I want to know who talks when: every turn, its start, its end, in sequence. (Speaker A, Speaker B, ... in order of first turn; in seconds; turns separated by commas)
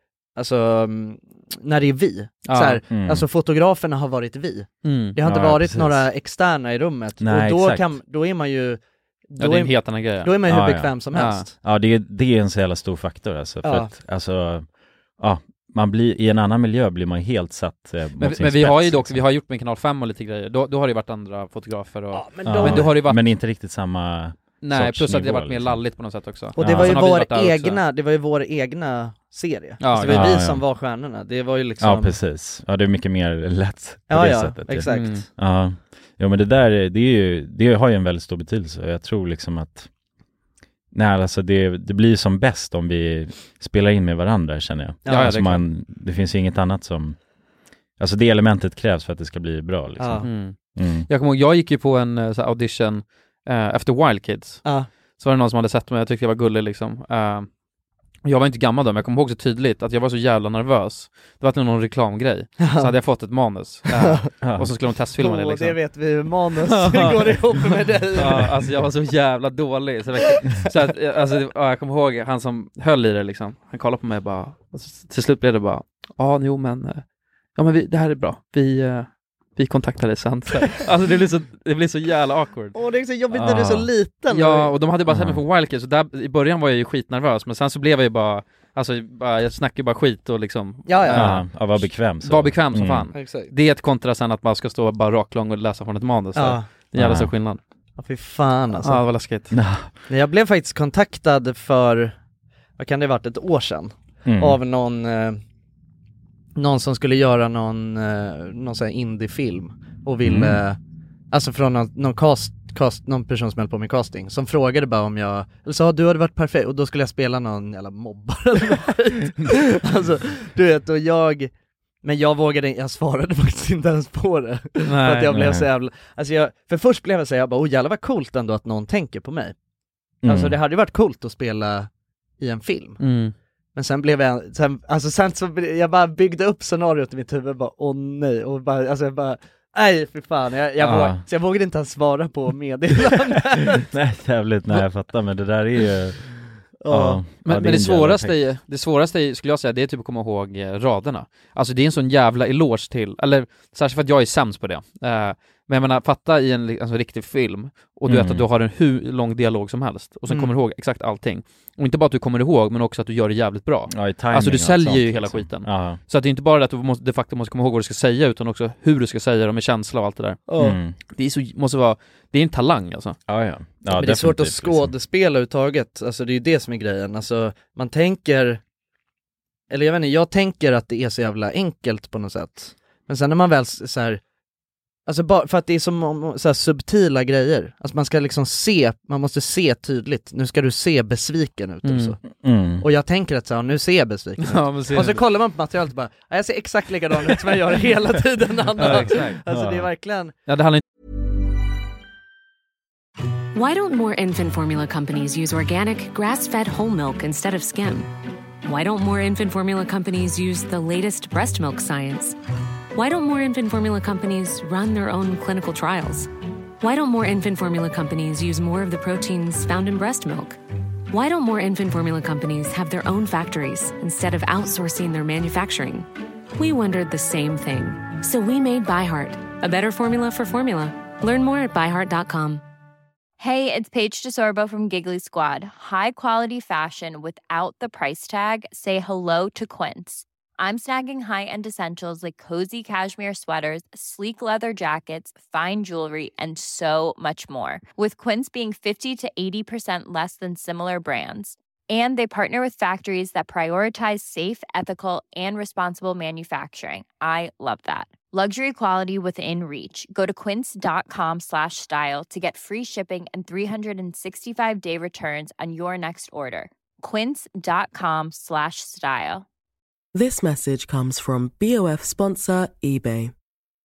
Speaker A: 0.4-11.5, Speaker B: 2.5-2.8, Speaker C: 2.9-3.3, Speaker B: 4.8-5.2, Speaker C: 5.2-6.1, Speaker C: 7.2-7.9, Speaker B: 9.4-10.3, Speaker C: 10.4-10.9, Speaker B: 11.1-11.5, Speaker C: 11.6-14.7, Speaker A: 13.6-13.9, Speaker C: 15.2-19.2, Speaker B: 18.2-23.2, Speaker A: 22.1-23.0, Speaker C: 22.4-25.8, Speaker B: 24.6-27.8, Speaker C: 26.6-27.0, Speaker A: 26.6-32.2, Speaker B: 29.8-30.4, Speaker C: 30.1-30.6, Speaker C: 31.8-39.9, Speaker A: 34.1-35.3, Speaker B: 34.9-35.2, Speaker C: 40.9-47.2, Speaker A: 45.1-45.4, Speaker B: 45.1-45.6, Speaker C: 48.0-51.1, Speaker A: 50.0-50.3, Speaker B: 50.2-54.6, Speaker B: 55.2-57.5, Speaker B: 58.2-65.8, Speaker A: 62.6-62.9, Speaker A: 63.9-64.3, Speaker C: 64.4-64.7, Speaker A: 65.2-68.5, Speaker B: 66.6-77.0, Speaker B: 77.5-82.8, Speaker A: 82.8-84.7, Speaker C: 83.3-83.9, Speaker B: 84.3-97.6, Speaker C: 85.1-85.4, Speaker A: 90.9-91.4, Speaker C: 91.1-93.1, Speaker A: 93.2-93.5, Speaker A: 96.3-96.7, Speaker C: 97.0-97.3, Speaker A: 98.0-99.0, Speaker B: 98.8-99.5, Speaker C: 99.5-99.9, Speaker A: 100.1-102.2, Speaker A: 102.8-105.4, Speaker C: 104.2-104.6, Speaker A: 106.6-110.8, Speaker C: 110.2-110.6, Speaker A: 111.3-121.5, Speaker A: 122.0-129.6, Speaker B: 124.8-125.4, Speaker C: 125.3-125.7, Speaker C: 130.2-130.6, Speaker A: 130.2-131.9, Speaker A: 132.4-133.0, Speaker B: 133.0-133.3, Speaker A: 133.8-143.8, Speaker C: 140.8-141.2, Speaker C: 143.8-146.4, Speaker A: 146.8-147.2, Speaker C: 146.9-148.4, Speaker B: 147.4-170.5, Speaker C: 158.1-158.4, Speaker C: 163.9-166.0, Speaker A: 170.5-170.8, Speaker C: 170.6-171.0, Speaker B: 171.1-173.2, Speaker C: 173.3-174.9, Speaker A: 173.9-178.6, Speaker A: 179.7-184.2, Speaker A: 185.1-192.2, Speaker B: 191.8-192.2, Speaker C: 192.3-192.9, Speaker A: 192.8-200.3, Speaker B: 194.4-195.2, Speaker B: 198.8-199.4, Speaker C: 198.8-199.9, Speaker B: 200.5-200.8, Speaker D: 203.5-208.1, Speaker D: 208.6-212.3, Speaker D: 212.9-216.3, Speaker D: 216.8-220.6, Speaker D: 221.1-232.6, Speaker E: 233.4-269.5, Speaker F: 270.1-273.3